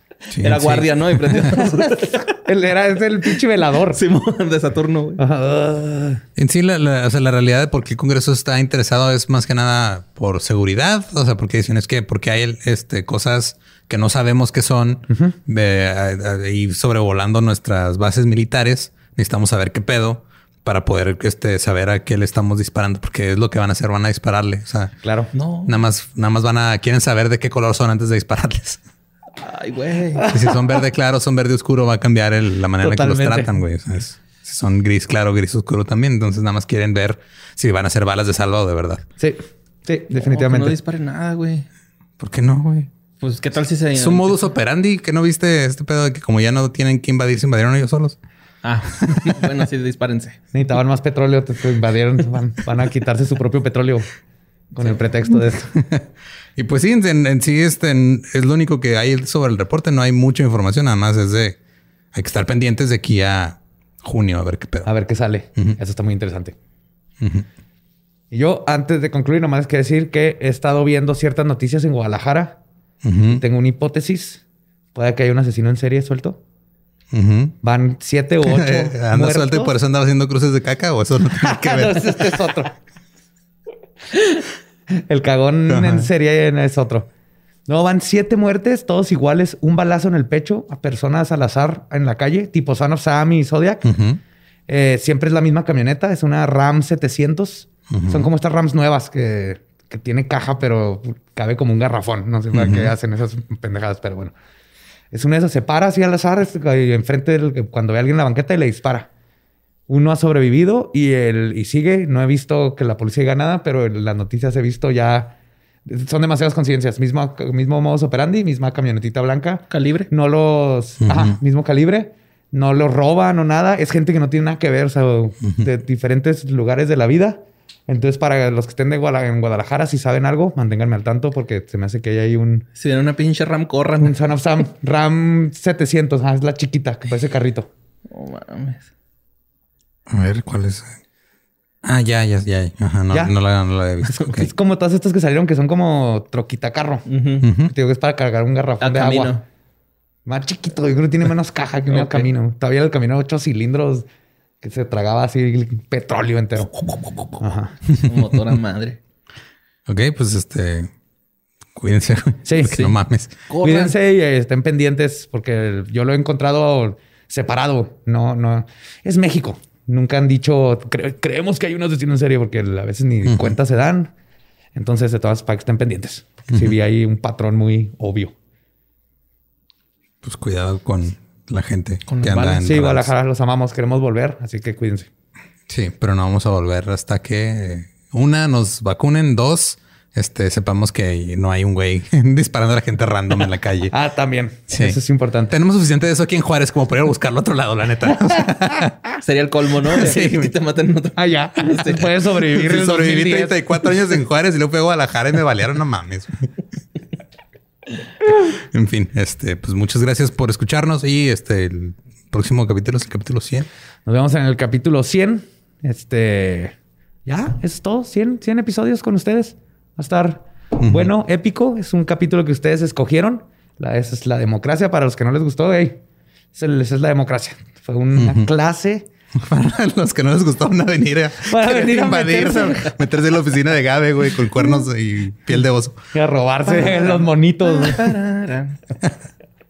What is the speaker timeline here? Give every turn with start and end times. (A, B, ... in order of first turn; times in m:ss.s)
0:00.3-0:01.6 A
0:00.4-0:02.4 B
0:01.5-0:04.0 C
0:03.9-0:05.2 B
0:05.2-0:06.2 C
0:06.4-0:24.9 A
0:15.1-0:15.4 C
0:25.0-0:25.3 C
0:25.3-0:25.8 B
0:25.6-0:28.8 A
0:29.4-0:30.3 B
0:30.2-0:30.6 C
0:30.3-0:39.0 A
0:32.8-0:33.5 C
0:39.2-0:40.8 C
0:40.2-0:41.7 B
0:42.2-0:42.9 A
0:43.2-0:44.5 B
0:44.0-0:48.2 A
0:48.6-0:50.4 B
0:49.0-0:49.4 A
0:50.5-0:54.1 C
0:54.7-0:55.7 C
0:55.7-1:01.6 A
1:02.1-1:04.9 A
1:04.8-1:06.6 C
1:07.2-1:07.5 A
1:08.3-1:12.6 C
1:13.0-1:13.4 A
1:13.3-1:14.4 C
1:15.0-1:16.4 C
1:17.1-1:17.6 A
1:17.6-1:19.8 C
1:18.4-1:22.4 A
1:21.3-1:22.7 C
1:24.9-1:27.1 C
1:25.7-1:26.1 A
1:27.7-1:34.0 C
1:33.8-1:34.2 A
1:34.7-1:44.4 C
1:37.9-1:38.2 A
1:42.5-1:42.9 A
1:45.1-1:49.1 C
1:49.9-2:12.7 C
1:59.7-2:00.1 B
2:01.0-2:01.4 A
2:12.8-2:14.2 B
2:14.0-2:17.7 C
2:18.1-2:18.8 B
2:20.1-2:21.0 A
2:21.8-2:24.5 A
2:24.0-2:29.3 C
2:27.1-2:27.5 B
2:27.4-2:27.7 A
2:28.8-2:29.4 B
2:30.3-2:34.1 C
2:32.0-2:32.3 B
2:34.6-2:36.7 C
2:36.9-2:37.3 B
2:37.4-2:37.8 C
2:37.9-2:38.4 A
2:37.9-2:39.0 B
2:39.9-2:40.9 A
2:41.8-2:43.4 A
2:42.4-2:42.9 C
2:43.5-2:44.0 B
2:43.6-2:54.1 C
2:53.2-2:53.5 A
2:54.8-2:58.3 C
2:56.5-2:56.8 A
3:00.2-3:03.1 A
3:02.1-3:02.6 B
3:02.5-3:05.1 C
3:05.7-3:13.9 A
3:13.9-3:15.5 C
3:14.7-3:15.0 A
3:15.5-3:19.0 A
3:18.3-3:18.8 C
3:19.2-3:22.2 B
3:19.9-3:20.5 A
3:21.2-3:23.6 C
3:22.5-3:26.5 A
3:28.5-3:33.7 A
3:34.1-3:36.8 C
3:37.3-3:46.0 C
3:40.8-3:41.1 A
3:46.5-3:49.1 C
3:48.2-3:48.5 A
3:49.4-3:56.0 A
3:51.4-3:52.9 C
3:56.1-3:58.2 C
3:56.7-3:58.8 B